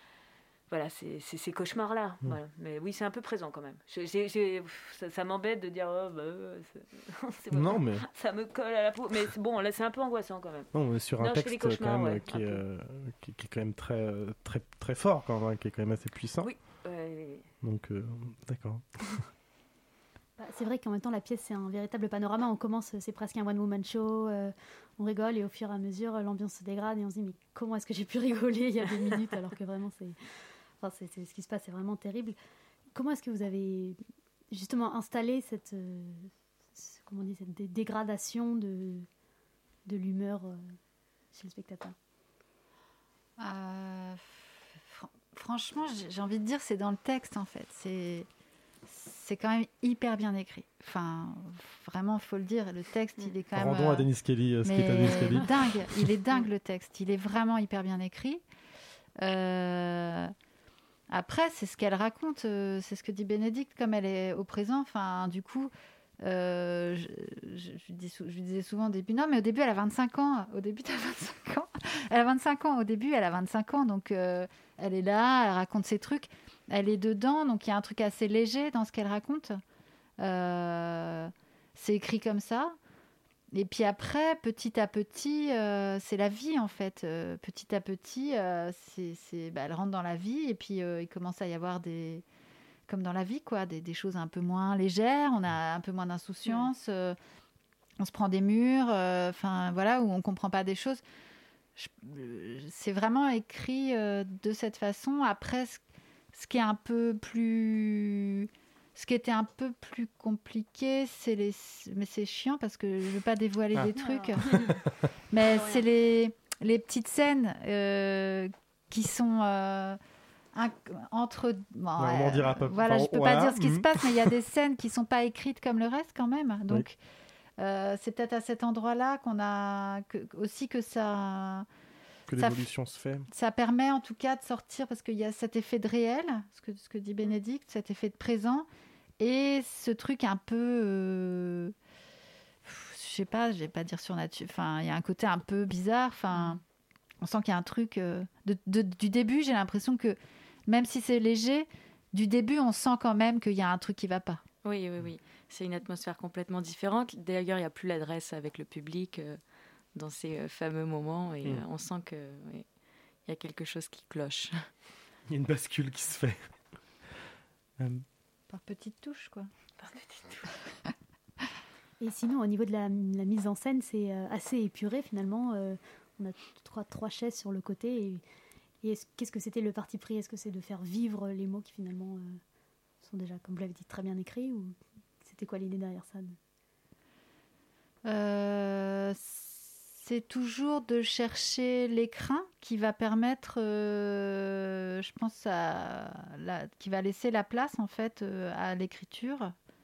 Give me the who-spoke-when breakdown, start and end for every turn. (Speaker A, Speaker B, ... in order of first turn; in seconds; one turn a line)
Speaker A: 0.7-12.6
Speaker B: 7.5-8.1
Speaker B: 10.7-16.5
Speaker A: 16.4-17.5
Speaker B: 17.6-18.9
Speaker C: 20.4-30.2
Speaker C: 30.8-32.4
Speaker C: 32.9-34.0
Speaker C: 34.5-39.1
Speaker C: 39.9-40.8
Speaker C: 41.3-42.0
Speaker D: 43.4-48.3
Speaker D: 48.9-54.1
Speaker B: 53.5-56.1
Speaker D: 54.6-58.4
Speaker D: 59.2-60.3
Speaker D: 61.1-79.6
Speaker D: 80.2-82.8
Speaker D: 83.5-92.2
Speaker D: 92.9-97.2
Speaker D: 98.0-101.0
Speaker D: 101.8-114.7
Speaker C: 113.9-114.8
Speaker B: 114.5-114.7
Speaker D: 115.3-120.0
Speaker D: 120.5-127.0
Speaker B: 122.0-124.3
Speaker D: 127.6-131.7
Speaker B: 132.3-133.3
Speaker D: 132.4-132.6
Speaker D: 133.3-138.7
Speaker D: 139.2-141.8
Speaker D: 142.7-146.6
Speaker D: 147.2-154.4
Speaker E: 154.6-159.4
Speaker E: 159.9-162.7
Speaker E: 163.2-164.6
Speaker B: 165.3-166.5
Speaker B: 167.8-168.0
Speaker D: 168.5-169.5
Speaker A: 169.8-170.5
Speaker C: 172.0-178.2
Speaker C: 178.8-182.4
Speaker C: 183.0-186.4
Speaker D: 188.1-199.6